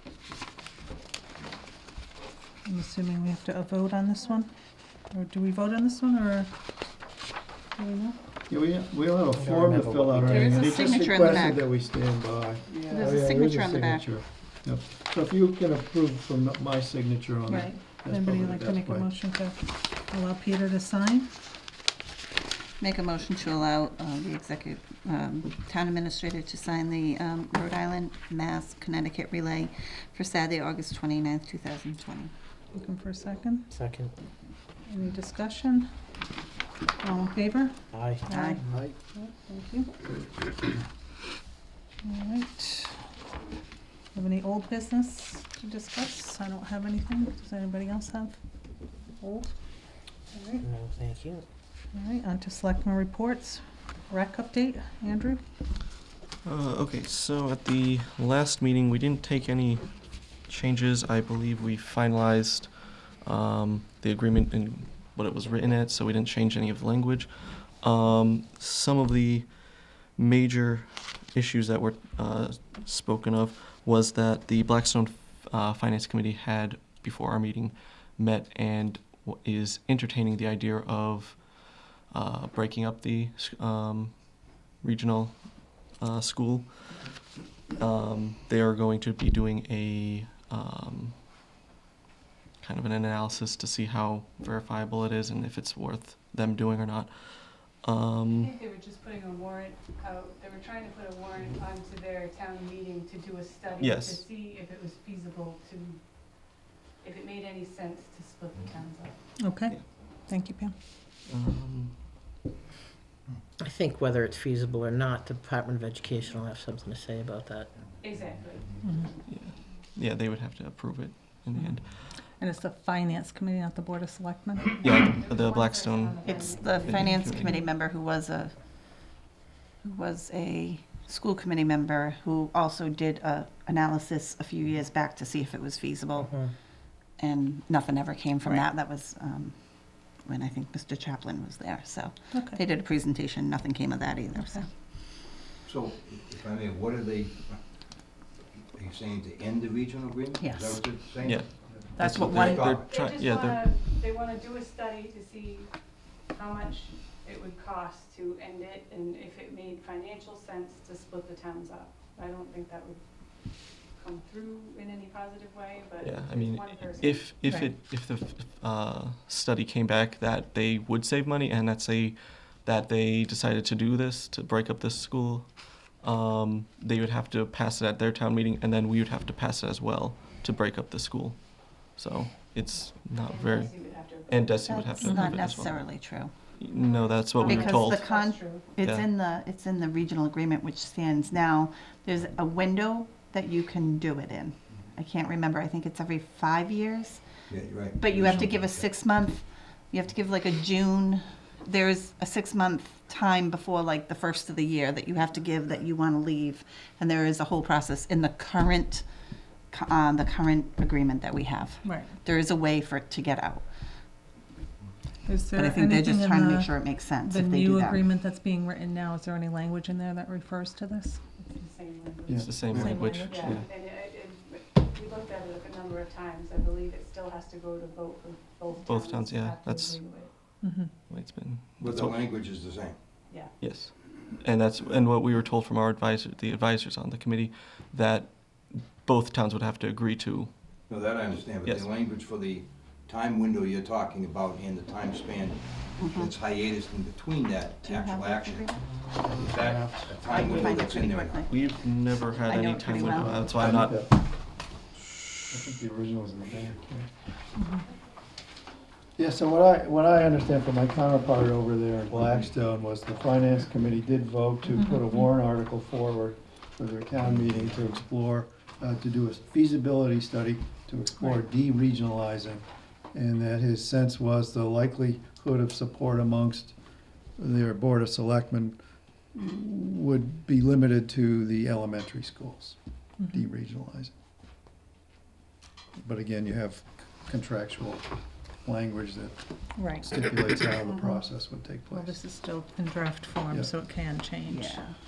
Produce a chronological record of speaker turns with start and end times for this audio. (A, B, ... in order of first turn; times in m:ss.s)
0:02.6-0:04.5 A
0:05.1-0:06.5 A
0:07.8-0:08.2 A
0:08.5-0:19.1 B
0:09.3-0:10.5 C
0:10.2-0:11.7 D
0:12.7-0:13.1 C
0:12.9-0:14.1 D
0:17.5-0:21.3 A
0:22.8-0:32.3 D
0:32.7-0:33.7 A
0:33.7-0:34.1 C
0:34.9-0:35.9 A
0:37.0-0:39.9 A
0:37.9-0:38.2 C
0:38.3-0:38.6 D
0:38.7-0:38.9 B
0:42.0-0:43.0 A
0:44.1-0:48.4 A
0:49.2-0:49.6 A
0:50.3-0:50.6 A
0:50.6-0:51.4 C
0:51.9-0:55.4 A
0:56.4-1:27.2 E
1:27.7-1:31.2 E
1:32.6-1:38.5 E
1:38.4-1:46.0 F
1:43.8-1:44.2 E
1:47.0-1:49.2 F
1:49.4-1:50.7 A
1:51.3-1:52.0 E
1:53.6-1:57.8 C
1:58.0-1:58.8 F
1:58.8-1:59.1 A
1:59.3-2:02.0 E
2:02.4-2:04.8 A
2:04.6-2:07.2 F
2:04.8-2:07.6 E
2:06.2-2:08.5 D
2:09.8-2:16.4 D
2:16.2-2:16.5 C
2:17.2-2:19.5 D
2:20.2-2:24.7 D
2:22.3-2:22.6 A
2:24.3-2:24.6 A
2:25.6-2:27.6 G
2:28.7-2:32.9 G
2:30.4-2:30.9 D
2:31.2-2:33.7 E
2:31.9-2:32.8 D
2:32.8-2:35.7 F
2:36.3-2:43.0 F
2:43.9-2:47.4 F
2:46.0-3:08.1 E
2:47.4-2:47.7 A
3:03.2-3:04.6 F
3:04.6-3:06.3 D
3:05.0-3:05.3 A
3:06.8-3:08.7 F
3:07.4-3:17.2 D
3:08.8-3:09.1 E
3:17.5-3:18.9 G
3:18.0-3:29.0 D
3:29.7-3:33.6 D
3:31.8-3:32.1 A
3:35.2-3:41.2 A
3:35.5-3:38.0 D
3:41.4-3:50.3 F
3:42.3-3:42.8 B
3:42.4-3:43.6 E
3:42.7-3:43.5 A
3:48.8-3:50.0 E
3:50.6-3:50.9 A
3:51.1-3:52.2 E
3:51.8-3:53.0 G
3:53.3-3:53.6 F
3:53.6-4:00.5 E
4:00.9-4:08.7 G
4:01.6-4:01.9 E
4:06.0-4:06.3 D
4:07.8-4:08.9 D
4:08.9-4:10.1 E
4:09.2-4:11.4 G
4:10.2-4:11.6 D
4:11.4-4:14.0 E
4:12.4-4:13.6 D
4:13.0-4:14.1 B
4:15.5-4:17.1 B
4:17.5-4:17.8 A
4:19.2-4:36.8 B
4:22.1-4:22.5 G
4:24.7-4:25.3 A
4:37.4-4:38.8 B
4:39.3-4:42.8 B
4:43.2-4:43.5 A
4:43.3-4:44.1 B
4:46.0-4:48.1 B
4:48.6-4:52.2 B
4:49.8-4:50.2 A
4:51.9-4:54.8 A
4:54.5-4:54.9 D